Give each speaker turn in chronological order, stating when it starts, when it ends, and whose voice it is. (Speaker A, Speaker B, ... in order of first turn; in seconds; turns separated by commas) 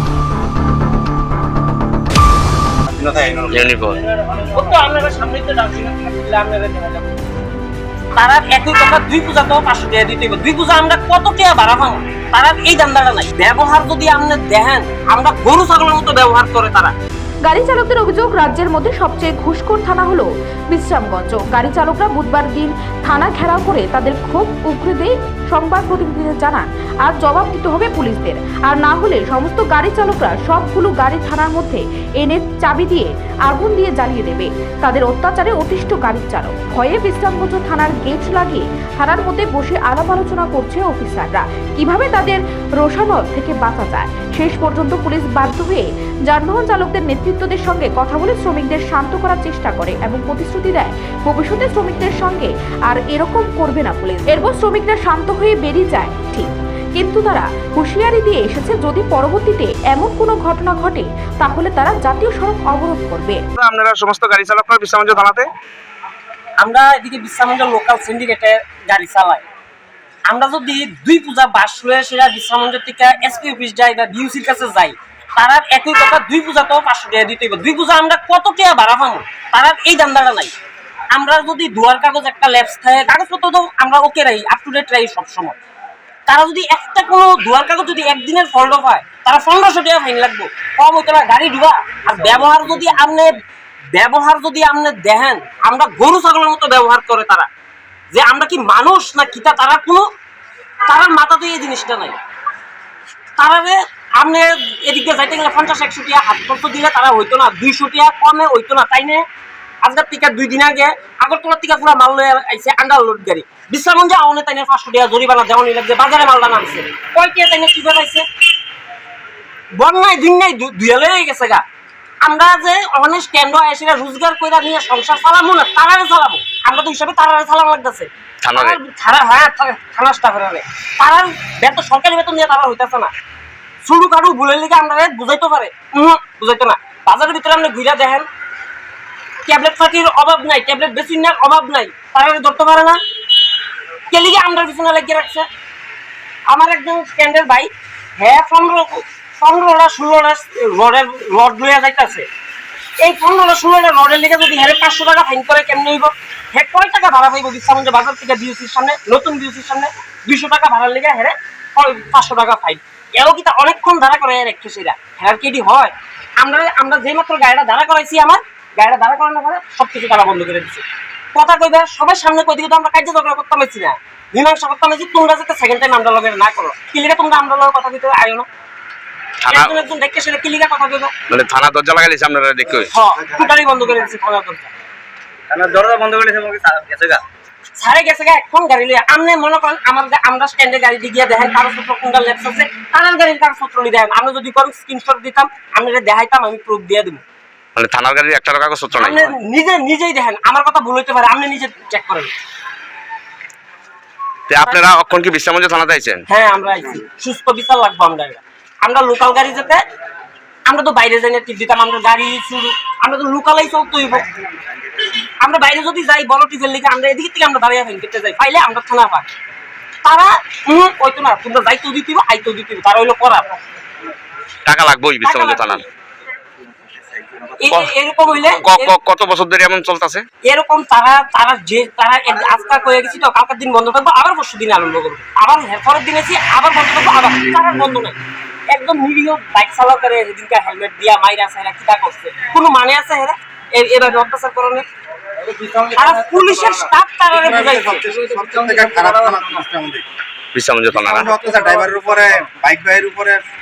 Speaker A: 2.9-3.5, Speaker B: 3.5-4.0, Speaker C: 4.2-7.1, Speaker C: 8.2-16.9, Speaker D: 17.4-63.4, Speaker B: 63.6-65.5, Speaker C: 66.6-69.4, Speaker C: 70.3-80.5, Speaker C: 81.1-85.6, Speaker C: 86.3-93.3, Speaker C: 94.0-97.5, Speaker C: 98.1-100.1, Speaker C: 100.9-102.2, Speaker C: 103.4-109.2, Speaker C: 109.8-118.2, Speaker C: 119.8-121.6, Speaker C: 122.2-133.1, Speaker B: 128.4-128.8, Speaker C: 133.8-138.3, Speaker C: 139.5-143.0, Speaker C: 144.1-145.5, Speaker C: 146.5-152.3, Speaker C: 153.0-178.5, Speaker B: 179.4-179.7, Speaker C: 179.5-181.1, Speaker B: 181.3-182.9, Speaker C: 182.9-184.7, Speaker A: 185.5-187.2, Speaker C: 187.8-197.2, Speaker B: 197.8-199.3, Speaker C: 199.0-202.3, Speaker B: 204.5-206.2, Speaker C: 206.3-209.8, Speaker C: 210.7-214.3, Speaker C: 215.4-219.3, Speaker C: 220.1-223.5, Speaker B: 224.7-225.8, Speaker C: 225.2-225.8, Speaker C: 227.6-228.9, Speaker B: 228.6-230.3, Speaker C: 230.4-238.2, Speaker C: 238.7-244.8, Speaker C: 245.9-248.1, Speaker E: 247.3-250.0, Speaker B: 250.5-251.3, Speaker E: 251.0-253.4